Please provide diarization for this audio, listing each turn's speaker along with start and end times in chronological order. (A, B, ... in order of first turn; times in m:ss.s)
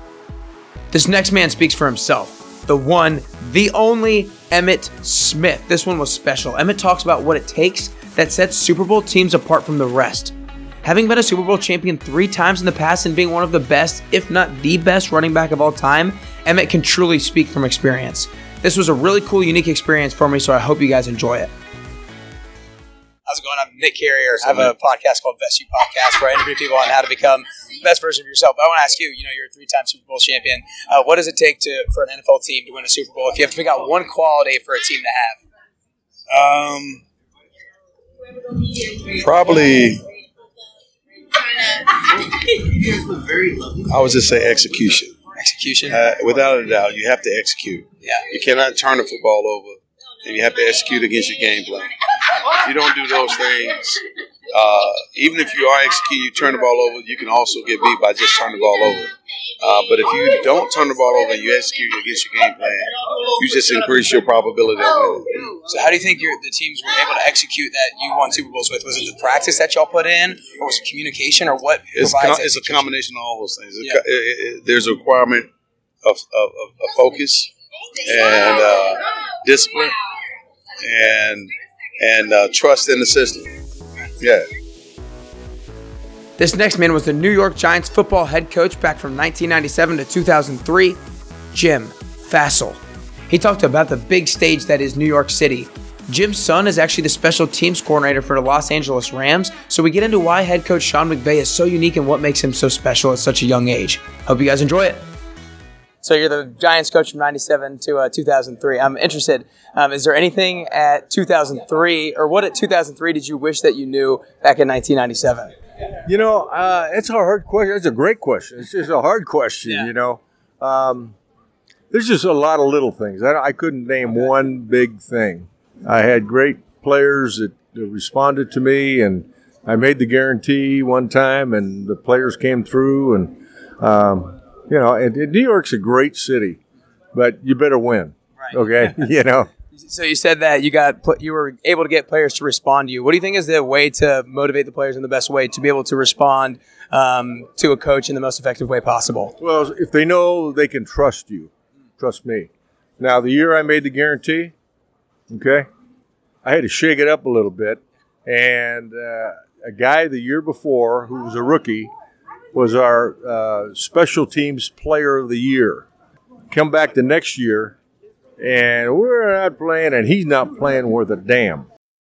0:00.9-0:10.3 A
0:10.8-0:21.5 A
0:23.3-0:35.4 A
0:36.3-0:37.0 B
0:39.2-0:40.0 B
0:43.8-0:45.2 B
0:45.4-0:46.0 A
0:45.9-0:51.9 B
0:52.6-0:54.0 B
0:54.5-1:05.3 B
1:05.6-1:12.9 A
1:12.0-1:15.5 B
1:16.0-1:17.5 B
1:18.0-1:20.0 B
1:20.8-1:23.5 B
1:24.2-1:24.5 B
1:26.4-1:31.0 A
1:31.5-1:45.1 A
1:46.0-1:55.5 A
1:56.1-2:01.2 C
2:01.9-2:16.6 C
2:17.1-2:19.5 C
2:18.4-2:18.7 A
2:19.7-2:29.3 A
2:29.4-2:34.5 C
2:35.3-2:35.7 C
2:36.4-2:41.9 C
2:42.5-2:45.9 C
2:46.5-2:47.8 C
2:48.4-2:51.7 C